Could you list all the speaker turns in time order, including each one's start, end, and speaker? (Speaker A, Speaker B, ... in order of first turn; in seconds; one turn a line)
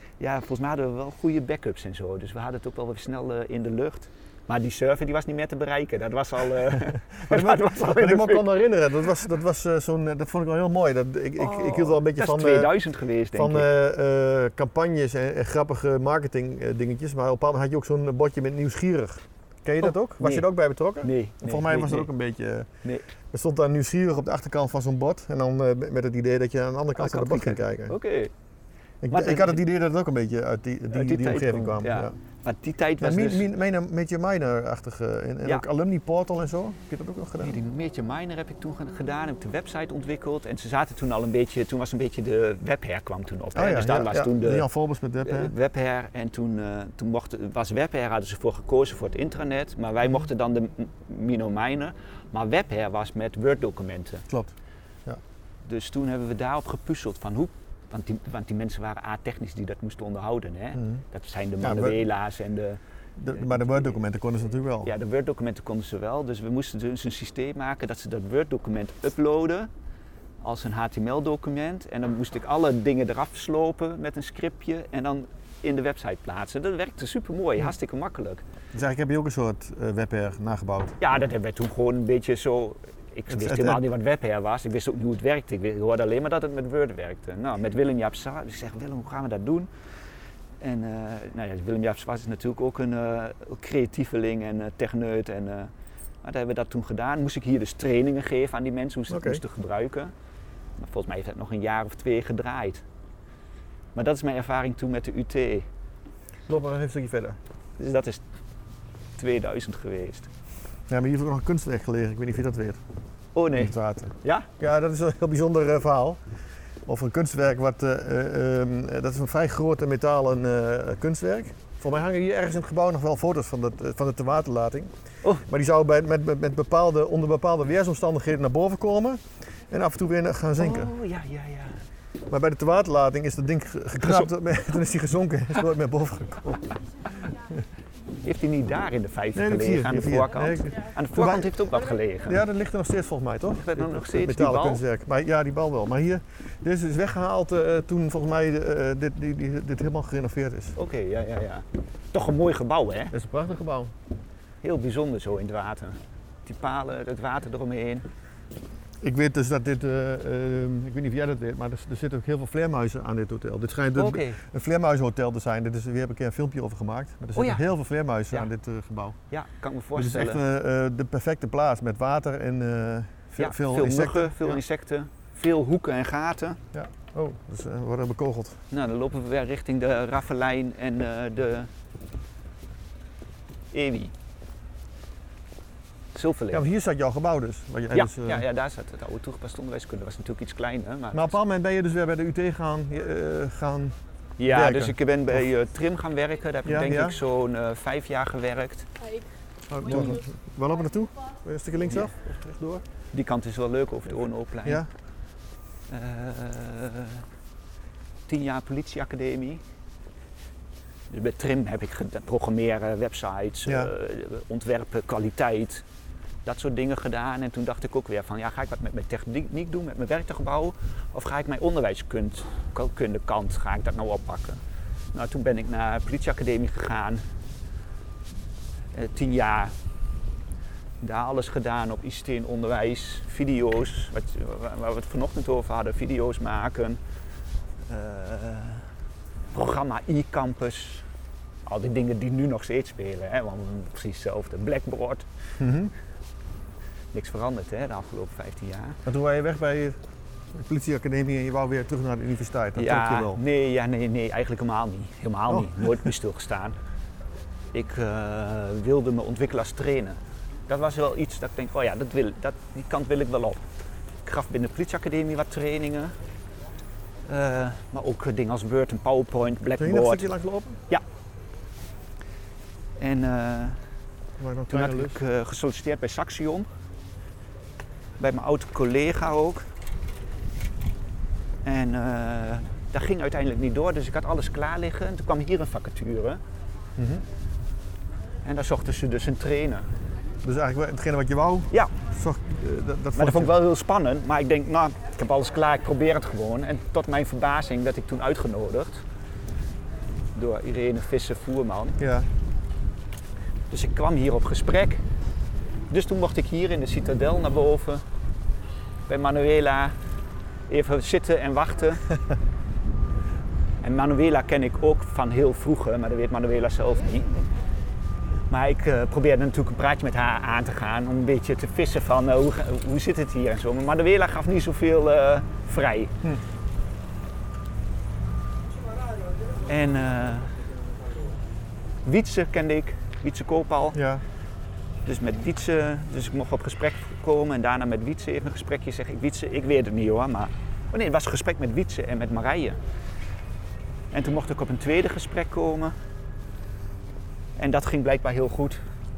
Speaker A: 0.2-8.5
Speaker B: 7.3-12.7
Speaker A: 11.4-13.7
Speaker B: 13.3-22.7
Speaker A: 19.8-20.5
Speaker A: 21.0-22.1
Speaker B: 23.3-27.9
Speaker A: 26.9-28.3
Speaker B: 29.0-32.1
Speaker A: 29.1-29.6
Speaker A: 30.9-33.5
Speaker B: 33.0-37.6
Speaker A: 37.4-44.7
Speaker B: 43.5-45.5
Speaker A: 45.2-54.2
Speaker A: 55.6-63.9
Speaker B: 60.8-61.0
Speaker B: 61.6-62.0
Speaker B: 63.2-64.9
Speaker A: 64.8-69.7
Speaker A: 70.4-78.4
Speaker B: 78.7-81.0
Speaker A: 81.0-89.7
Speaker B: 83.3-83.8
Speaker A: 90.6-95.7
Speaker A: 96.2-100.1
Speaker B: 99.1-99.4
Speaker A: 100.8-102.8
Speaker A: 103.9-105.7
Speaker B: 106.5-107.4
Speaker A: 107.8-108.2
Speaker A: 109.2-110.3
Speaker B: 110.9-112.8
Speaker A: 113.3-114.5
Speaker B: 113.5-116.2
Speaker B: 116.8-124.9
Speaker B: 125.4-130.9
Speaker A: 130.6-131.8
Speaker B: 132.3-137.3
Speaker A: 134.0-134.3
Speaker A: 138.2-142.4
Speaker B: 139.3-141.6
Speaker B: 142.2-150.8
Speaker A: 143.6-144.8
Speaker A: 150.8-153.1
Speaker B: 153.1-153.9
Speaker A: 154.6-158.1
Speaker B: 159.0-169.2
Speaker A: 163.9-164.4
Speaker A: 167.3-167.6
Speaker A: 169.3-170.4
Speaker B: 169.9-174.6
Speaker A: 173.4-176.6
Speaker B: 176.7-178.6
Speaker A: 178.7-181.7
Speaker A: 183.7-184.1
Speaker A: 186.1-186.7
Speaker B: 186.5-188.4
Speaker A: 187.9-191.3
Speaker B: 191.1-193.9
Speaker A: 194.4-198.9
Speaker B: 194.4-195.4
Speaker B: 196.6-197.2
Speaker B: 199.7-202.8
Speaker A: 203.1-204.8
Speaker A: 205.9-207.2
Speaker A: 208.3-209.6
Speaker A: 211.1-215.8
Speaker B: 213.7-213.9
Speaker A: 216.4-224.6
Speaker A: 225.1-227.2
Speaker A: 228.9-229.7
Speaker A: 231.0-237.0
Speaker A: 237.9-238.9
Speaker A: 239.5-241.1
Speaker A: 241.7-245.3
Speaker B: 245.6-245.9
Speaker A: 247.1-249.0
Speaker B: 249.1-250.0
Speaker B: 250.5-253.4
Speaker A: 252.8-256.8
Speaker B: 255.5-255.8
Speaker A: 257.7-263.6
Speaker A: 264.2-266.1
Speaker A: 267.2-270.3
Speaker B: 269.8-270.8
Speaker A: 273.0-273.8
Speaker B: 274.4-275.2
Speaker A: 274.7-276.7
Speaker A: 278.2-279.6
Speaker A: 281.6-286.4
Speaker B: 287.0-287.2
Speaker A: 288.4-289.9
Speaker B: 290.4-293.5
Speaker A: 293.1-299.0
Speaker A: 300.3-302.0
Speaker B: 302.0-302.3
Speaker A: 303.7-305.0
Speaker A: 305.9-308.0
Speaker A: 309.1-309.9
Speaker A: 310.7-312.0
Speaker A: 313.8-317.5
Speaker A: 318.5-326.1
Speaker A: 329.6-330.6
Speaker A: 332.0-334.0
Speaker B: 333.9-334.2
Speaker A: 335.1-342.8
Speaker A: 344.1-345.9
Speaker A: 347.6-348.8